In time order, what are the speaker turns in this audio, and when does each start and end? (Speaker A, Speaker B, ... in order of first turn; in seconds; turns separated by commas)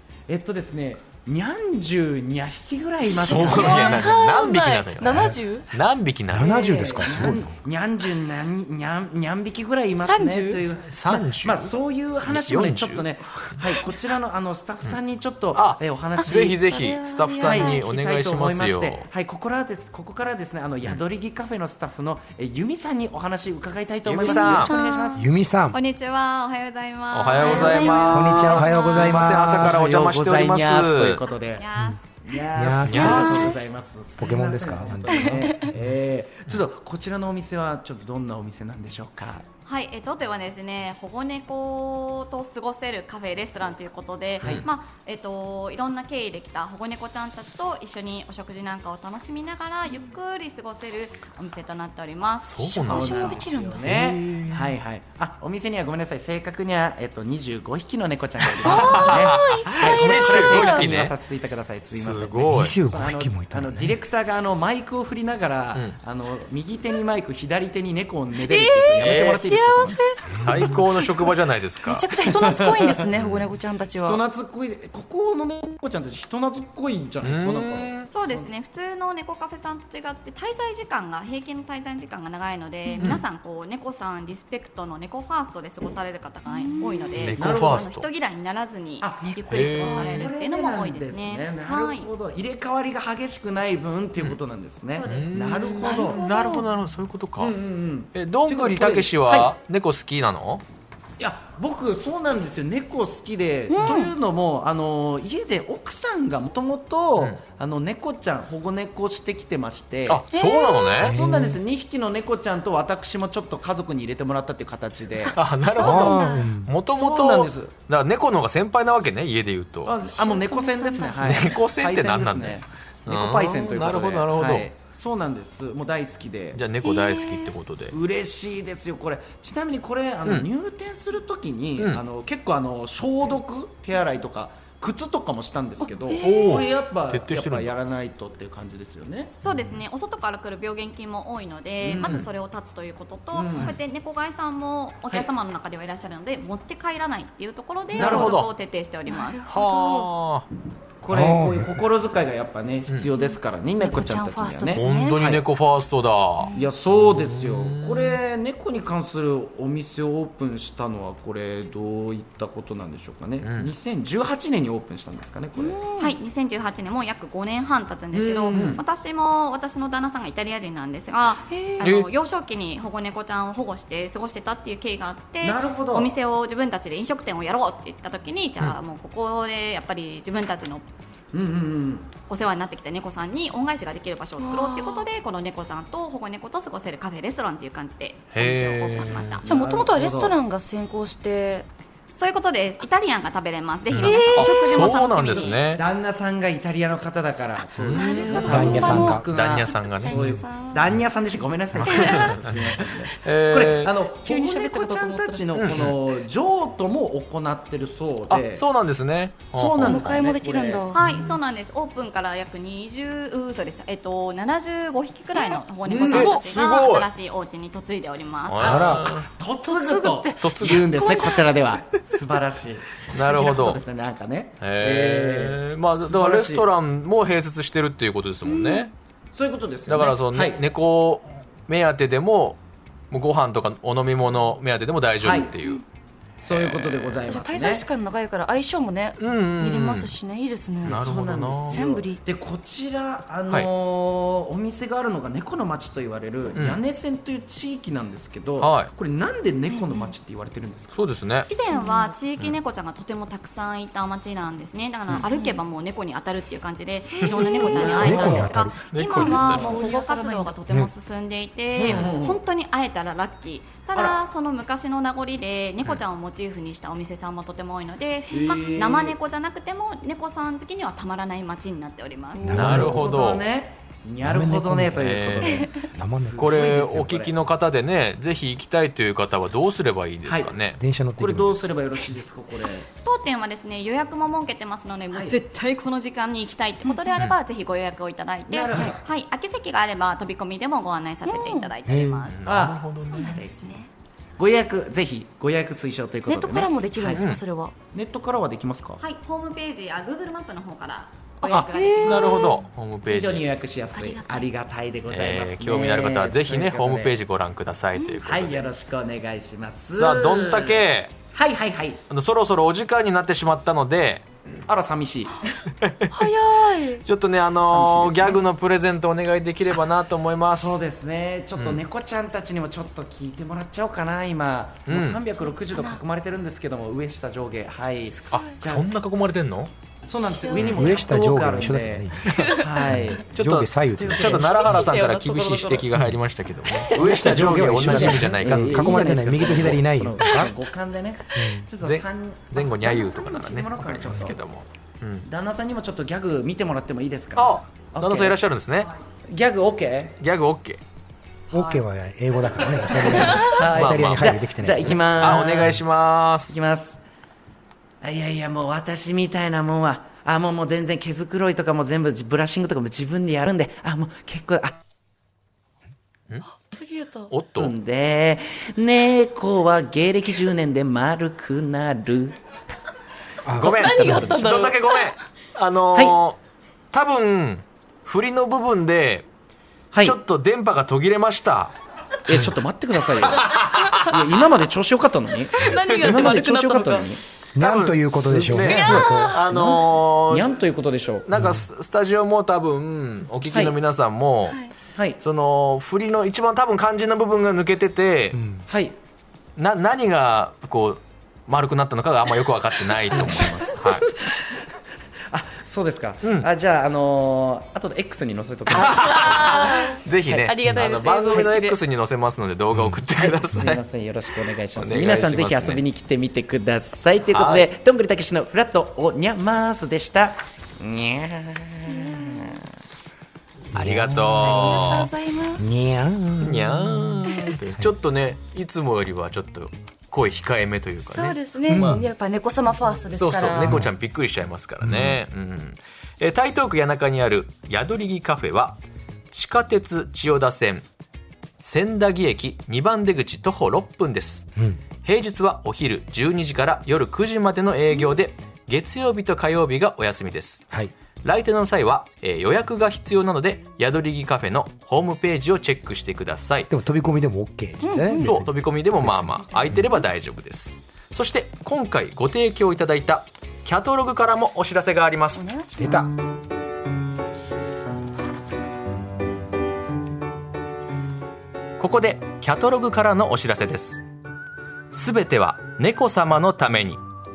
Speaker A: 0.3-4.1, Speaker B: 3.0-7.3, Speaker C: 3.2-5.7, Speaker D: 5.1-5.4, Speaker D: 6.3-7.5, Speaker A: 6.4-16.6, Speaker C: 10.0-10.7, Speaker B: 10.9-13.7, Speaker B: 15.5-19.1, Speaker C: 16.2-17.9, Speaker A: 17.4-25.3, Speaker B: 24.0-24.7, Speaker E: 24.5-29.4, Speaker D: 25.1-25.8, Speaker B: 27.1-31.2, Speaker A: 27.4-27.8, Speaker D: 28.1-29.9, Speaker A: 28.7-31.6, Speaker E: 31.4-32.2, Speaker A: 32.2-39.5, Speaker D: 32.5-33.5, Speaker B: 32.9-33.5, Speaker E: 32.9-33.7, Speaker D: 34.2-35.7, Speaker E: 39.6-53.5, Speaker B: 52.4-54.7, Speaker A: 52.8-70.0, Speaker C: 52.8-54.0, Speaker B: 58.5-61.1, Speaker C: 58.6-61.0, Speaker B: 61.9-62.8, Speaker D: 62.5-64.0, Speaker C: 68.4-74.2, Speaker B: 69.0-69.5, Speaker B: 70.3-72.2, Speaker A: 72.2-73.0, Speaker B: 73.1-73.5, Speaker A: 74.0-78.5, Speaker B: 77.2-78.1, Speaker E: 78.1-92.1, Speaker B: 83.0-83.2, Speaker C: 86.5-87.3, Speaker B: 87.2-88.1, Speaker A: 87.3-87.8, Speaker A: 89.0-96.2, Speaker C: 89.2-90.2, Speaker B: 89.5-90.2, Speaker E: 95.0-96.6, Speaker B: 95.0-97.5, Speaker C: 95.8-96.6, Speaker A: 97.4-99.5, Speaker B: 98.1-100.6, Speaker A: 101.2-110.2, Speaker C: 103.7-104.1, Speaker B: 110.1-111.2, Speaker C: 110.3-111.1, Speaker A: 111.0-115.4, Speaker D: 111.0-111.6, Speaker B: 115.2-120.0, Speaker C: 115.7-116.5, Speaker D: 115.8-116.7, Speaker A: 116.9-117.7, Speaker A: 119.8-126.7, Speaker C: 120.1-121.6, Speaker B: 121.2-124.7, Speaker B: 126.5-127.9, Speaker C: 126.8-127.5, Speaker A: 127.9-139.3, Speaker C: 135.8-136.7, Speaker B: 136.2-137.7, Speaker E: 139.4-149.4, Speaker A: 141.8-142.3, Speaker A: 143.3-143.7, Speaker B: 147.9-148.5, Speaker A: 147.9-148.3, Speaker C: 149.1-150.1, Speaker B: 149.5-150.5, Speaker A: 151.0-155.4, Speaker D: 151.1-151.8, Speaker C: 153.1-155.3, Speaker B: 154.7-158.2, Speaker C: 156.4-156.7, Speaker A: 156.5-165.9, Speaker B: 163.4-163.7, Speaker C: 165.6-166.2, Speaker E: 165.9-180.8, Speaker A: 168.1-168.8, Speaker B: 168.5-168.8, Speaker C: 171.5-171.9, Speaker B: 171.8-172.1, Speaker A: 175.4-176.1, Speaker A: 181.3-182.1, Speaker E: 182.2-189.5, Speaker C: 184.4-185.1, Speaker B: 188.3-189.4, Speaker A: 189.4-190.4, Speaker C: 189.4-191.7, Speaker E: 192.1-195.6, Speaker B: 193.9-195.8, Speaker C: 194.1-194.6, Speaker A: 194.7-208.7, Speaker B: 197.8-200.4, Speaker C: 197.9-200.9, Speaker D: 198.4-199.2, Speaker B: 201.7-203.9, Speaker C: 201.8-202.5, Speaker C: 204.1-205.5, Speaker B: 205.6-206.0, Speaker B: 208.3-210.1, Speaker A: 209.5-210.9, Speaker C: 209.8-211.0, Speaker E: 210.9-218.7, Speaker B: 210.9-211.4, Speaker A: 215.8-216.3, Speaker B: 216.0-217.1, Speaker C: 216.1-216.5, Speaker B: 218.5-219.3, Speaker A: 218.6-226.7, Speaker D: 218.6-219.1, Speaker C: 219.6-221.5, Speaker B: 220.4-221.0, Speaker B: 223.1-223.8, Speaker B: 224.6-228.9, Speaker C: 228.4-228.9, Speaker A: 229.3-230.6, Speaker B: 229.9-232.6, Speaker B: 233.1-235.8, Speaker A: 235.2-235.5, Speaker A: 236.4-237.8, Speaker B: 236.4-237.4, Speaker C: 237.2-241.0, Speaker B: 239.2-240.1, Speaker A: 240.8-251.1, Speaker B: 240.8-241.8, Speaker C: 241.7-242.2, Speaker B: 246.5-246.8, Speaker B: 248.6-248.9, Speaker C: 249.7-250.1, Speaker B: 250.9-251.5, Speaker E: 251.5-272.5, Speaker C: 251.7-252.1, Speaker C: 255.3-255.6, Speaker B: 257.2-258.2, Speaker C: 257.3-258.2, Speaker A: 257.6-258.5, Speaker D: 258.0-258.8, Speaker B: 258.8-259.8, Speaker C: 259.2-260.6, Speaker A: 261.7-262.4, Speaker A: 263.9-264.2, Speaker A: 268.3-269.2, Speaker C: 272.3-273.0, Speaker D: 272.4-273.0, Speaker B: 272.4-273.4, Speaker A: 272.6-277.4, Speaker D: 274.2-275.1, Speaker B: 275.0-275.7, Speaker D: 275.9-276.9, Speaker B: 276.4-280.8, Speaker A: 280.2-280.5, Speaker D: 280.8-281.6, Speaker A: 281.2-282.9, Speaker E: 283.0-292.5, Speaker A: 285.1-285.4, Speaker C: 286.8-287.1, Speaker A: 288.5-289.1, Speaker C: 291.2-291.7, Speaker D: 291.9-292.2, Speaker B: 292.3-293.4, Speaker A: 292.4-293.8, Speaker C: 293.1-293.9, Speaker A: 294.4-297.2, Speaker C: 296.2-297.7, Speaker B: 297.0-297.4, Speaker A: 297.9-299.0, Speaker E: 299.0-302.3, Speaker B: 301.4-303.5, Speaker C: 301.7-302.6, Speaker A: 303.1-307.2, Speaker C: 303.9-304.5, Speaker B: 305.1-308.6, Speaker A: 308.2-312.0, Speaker B: 309.9-311.1, Speaker B: 312.1-314.2, Speaker A: 314.6-315.4, Speaker B: 315.8-316.3, Speaker C: 316.1-317.0, Speaker B: 317.0-320.9, Speaker A: 317.6-318.4, Speaker A: 320.5-328.9, Speaker B: 321.6-321.8, Speaker B: 324.9-325.2, Speaker C: 325.4-326.0, Speaker B: 328.3-329.7, Speaker A: 330.0-333.2, Speaker C: 330.2-331.0, Speaker D: 330.6-334.5, Speaker C: 332.3-333.1, Speaker B: 333.3-339.1, Speaker A: 334.0-334.9, Speaker C: 334.4-335.9, Speaker C: 336.7-337.3, Speaker D: 336.9-340.5, Speaker A: 337.3-344.4, Speaker C: 340.2-340.5, Speaker D: 341.3-341.7, Speaker B: 341.8-345.3, Speaker A: 345.2-348.4, Speaker B: 347.4-348.9, Speaker A: 349.3-350.1, Speaker B: 350.2-350.8, Speaker D: 351.5-355.6, Speaker A: 351.5-351.8, Speaker A: 352.6-355.9, Speaker B: 353.7-354.4, Speaker B: 355.2-356.6, Speaker A: 356.5-357.0, Speaker A: 358.0-364.8, Speaker C: 366.6-367.3, Speaker B: 367.3-367.8, Speaker A: 367.6-372.3, Speaker D: 373.4-374.4, Speaker B: 373.6-376.4, Speaker C: 373.6-375.1, Speaker B: 376.9-379.3, Speaker A: 379.9-380.2, Speaker B: 380.0-381.7, Speaker A: 382.3-387.2, Speaker B: 383.3-384.0, Speaker C: 383.4-384.3, Speaker C: 385.5-387.1, Speaker B: 385.7-386.1, Speaker D: 387.5-389.4, Speaker B: 387.6-390.6, Speaker C: 388.6-389.4, Speaker A: 389.3-391.3, Speaker B: 391.2-398.4, Speaker D: 391.3-391.6, Speaker A: 393.5-393.8, Speaker A: 394.9-395.2, Speaker D: 398.3-398.6, Speaker A: 398.7-398.9, Speaker B: 399.6-404.1, Speaker A: 403.1-404.5, Speaker A: 405.3-410.5, Speaker B: 406.2-406.5, Speaker B: 408.7-413.8, Speaker C: 408.8-411.8, Speaker A: 411.2-411.5, Speaker A: 413.1-422.6, Speaker B: 414.7-415.8, Speaker B: 417.3-417.7, Speaker C: 421.9-422.3, Speaker B: 423.7-425.1, Speaker D: 423.7-424.9, Speaker C: 424.4-425.6, Speaker D: 425.6-427.3, Speaker B: 426.4-432.1, Speaker C: 431.0-433.9, Speaker D: 431.7-432.0, Speaker B: 433.1-438.8, Speaker D: 433.6-433.9, Speaker D: 434.8-435.2, Speaker B: 439.3-440.9, Speaker B: 441.6-444.5, Speaker B: 445.0-450.6, Speaker B: 451.2-456.7, Speaker D: 456.7-459.6, Speaker C: 457.8-458.3, Speaker B: 458.2-465.5, Speaker C: 459.6-460.0, Speaker C: 465.3-466.1, Speaker D: 465.8-466.1, Speaker B: 471.8-474.0, Speaker B: 474.9-477.0